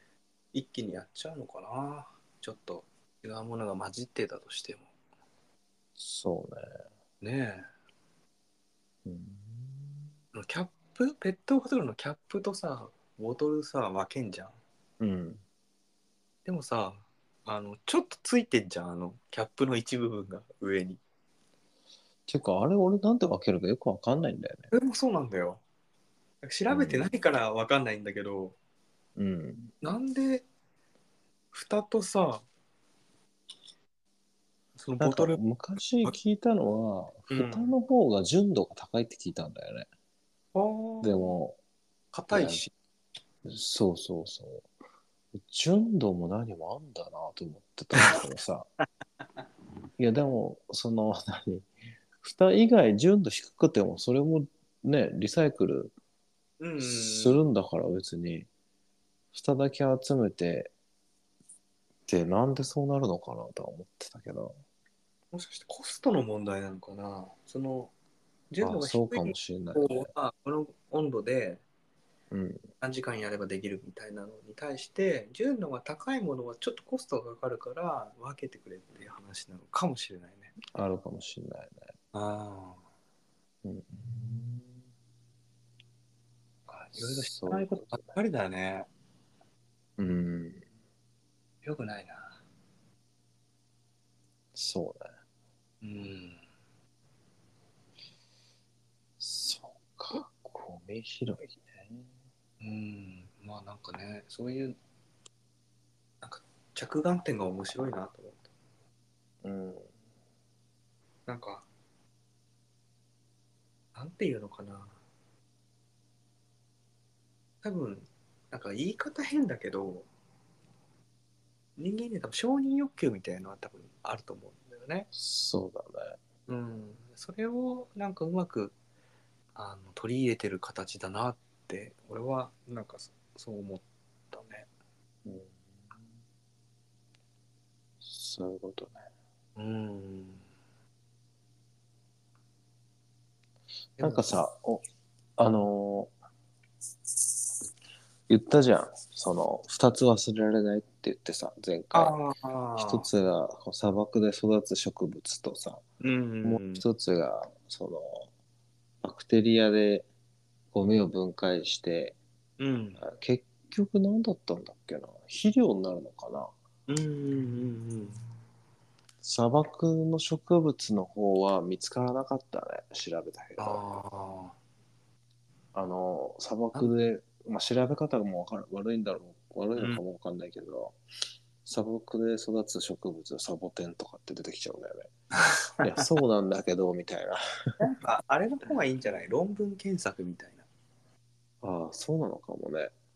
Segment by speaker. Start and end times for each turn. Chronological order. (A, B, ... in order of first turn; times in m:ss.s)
0:00.5-0:04.9 A
0:06.0-0:06.6 B
0:07.2-0:07.6 A
0:09.0-0:10.1 B
0:10.3-0:14.6 A
0:15.0-0:15.4 B
0:16.4-0:21.0 A
0:22.3-0:24.7 B
0:24.7-0:25.6 A
0:26.4-0:28.6 A
0:26.7-0:27.1 B
0:29.2-0:29.7 B
0:29.8-0:30.4 A
0:31.5-0:32.4 A
0:34.8-0:35.4 A
0:35.0-0:39.9 B
0:37.3-0:37.7 A
0:40.5-0:41.3 A
0:41.0-0:41.6 B
0:42.1-0:42.7 A
0:42.3-0:42.6 B
0:43.4-0:44.6 B
0:45.3-0:48.7 B
0:50.0-0:51.7 B
0:52.2-0:55.9 B
0:56.6-0:57.4 A
0:56.8-0:58.5 B
0:59.3-1:00.7 B
1:02.1-1:04.5 B
1:05.3-1:07.9 A
1:08.5-1:11.6 A
1:08.6-1:10.1 B
1:12.3-1:12.6 B
1:12.8-1:20.5 A
1:20.7-1:21.9 B
1:22.1-1:22.8 A
1:23.6-1:24.8 B
1:26.7-1:28.9 A
1:27.0-1:28.2 B
1:30.0-1:30.6 B
1:31.6-1:32.4 A
1:34.5-1:35.1 B
1:35.8-1:36.4 A
1:39.2-1:42.1 B
1:42.6-1:44.8 A
1:46.2-1:48.5 A
1:49.4-1:49.9 B
1:51.3-1:51.7 A
1:53.9-1:55.0 A
1:57.6-2:00.1 A
2:01.8-2:05.1 A
2:05.1-2:06.2 B
2:06.5-2:08.7 A
2:09.6-2:14.7 A
2:15.2-2:16.1 B
2:18.0-2:19.0 B
2:19.6-2:20.4 A
2:24.0-2:24.3 A
2:24.0-2:24.8 B
2:25.4-2:26.1 B
2:28.3-2:32.2 B
2:31.9-2:33.1 A
2:32.8-2:35.8 B
2:36.0-2:36.8 A
2:36.4-2:38.3 B
2:39.0-2:40.1 B
2:40.7-2:42.2 B
2:42.6-2:43.0 A
2:43.0-2:46.5 B
2:46.9-2:48.2 A
2:49.2-2:53.8 B
2:53.6-2:54.6 A
2:55.7-3:01.0 B
3:01.6-3:05.1 B
3:05.4-3:06.0 A
3:05.8-3:07.4 B
3:07.8-3:10.6 A
3:11.6-3:12.9 B